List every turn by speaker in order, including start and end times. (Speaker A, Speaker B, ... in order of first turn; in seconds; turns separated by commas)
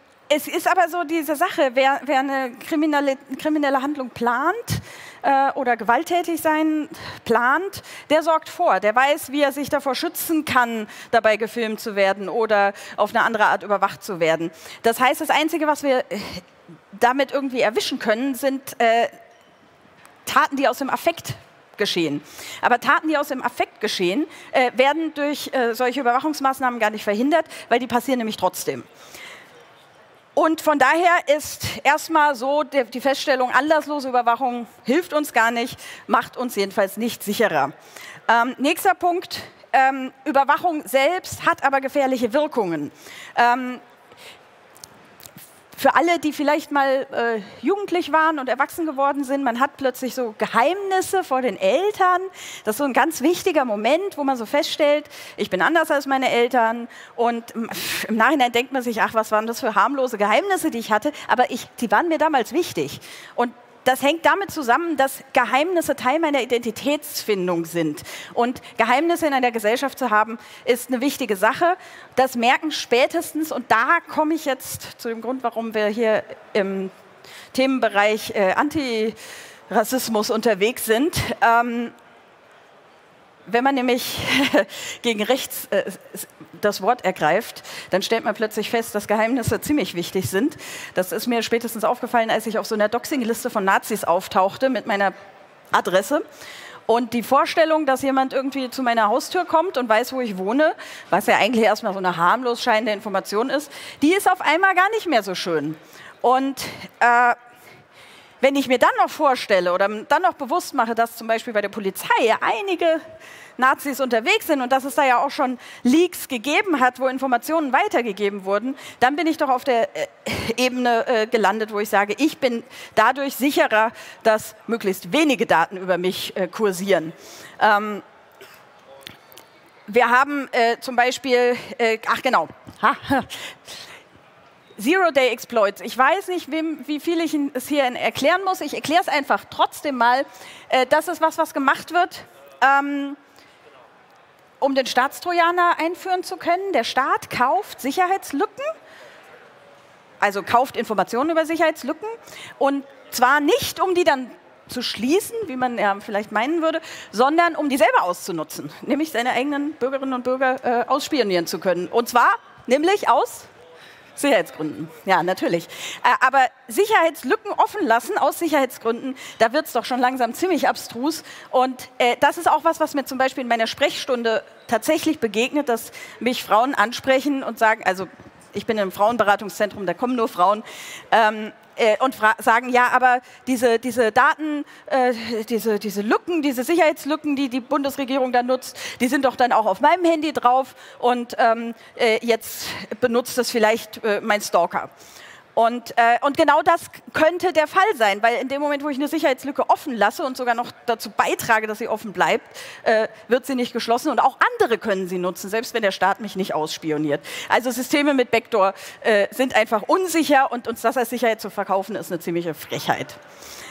Speaker A: 0.3-19.1, Speaker A: 20.2-28.8, Speaker A: 30.4-37.7, Speaker A: 38.3-43.8, Speaker A: 45.7-76.9, Speaker A: 77.5-79.2, Speaker A: 79.7-81.9, Speaker A: 83.5-95.1, Speaker A: 95.7-96.2, Speaker A: 96.9-107.4, Speaker A: 108.4-113.0, Speaker A: 113.6-128.0, Speaker A: 129.9-133.5, Speaker A: 134.8-143.2, Speaker A: 144.6-148.7, Speaker A: 150.2-163.5, Speaker A: 164.2-194.9, Speaker A: 195.5-213.2